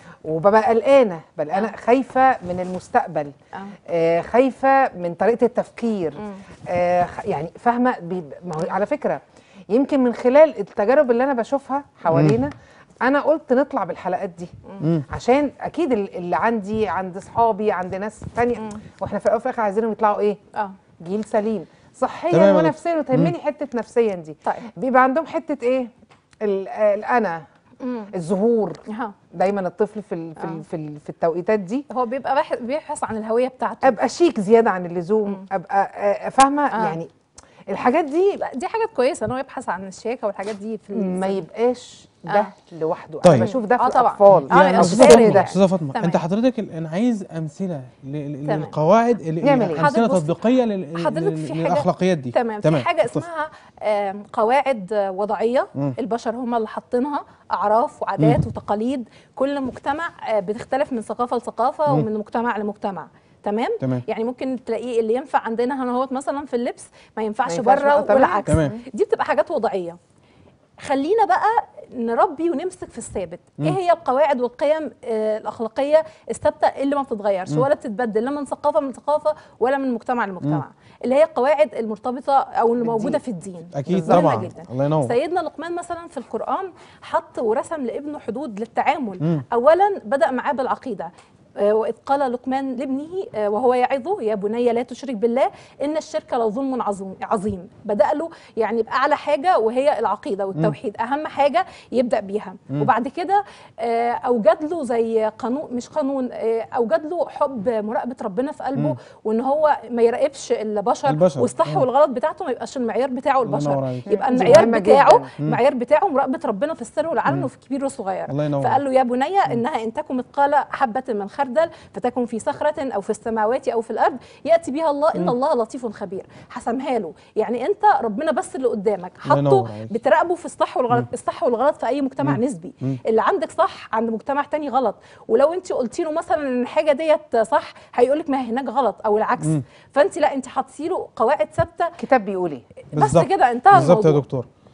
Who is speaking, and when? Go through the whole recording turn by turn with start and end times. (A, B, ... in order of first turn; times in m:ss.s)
0:00.2-0:03.3 A
0:03.8-0:14.6 A
0:12.1-0:12.4 B
0:14.8-0:15.0 B
0:15.1-0:20.4 A
0:21.0-0:27.4 A
0:22.3-0:23.3 B
0:27.8-0:28.1 C
0:28.1-0:31.8 A
0:28.9-0:29.1 C
0:31.9-0:34.0 C
0:33.8-0:37.1 A
0:37.7-0:38.4 A
0:38.4-0:41.4 C
0:40.9-0:45.6 A
0:43.3-0:46.2 C
0:44.3-0:53.2 B
0:48.4-0:48.7 C
0:49.4-0:49.8 A
0:49.8-0:50.3 C
0:51.0-1:10.0 C
1:03.8-1:04.0 B
1:07.5-1:08.8 A
1:08.5-1:08.7 B
1:10.8-2:21.9 C
1:22.8-1:23.2 A
1:23.7-1:25.2 B
1:23.8-1:24.4 A
1:51.1-1:51.9 B
1:53.4-1:54.7 B
1:54.0-1:55.3 A
1:58.3-1:58.8 B
2:09.2-2:09.9 B
2:12.2-2:13.0 B
2:22.0-2:22.6 A
2:22.9-2:24.2 C
2:22.9-2:24.5 B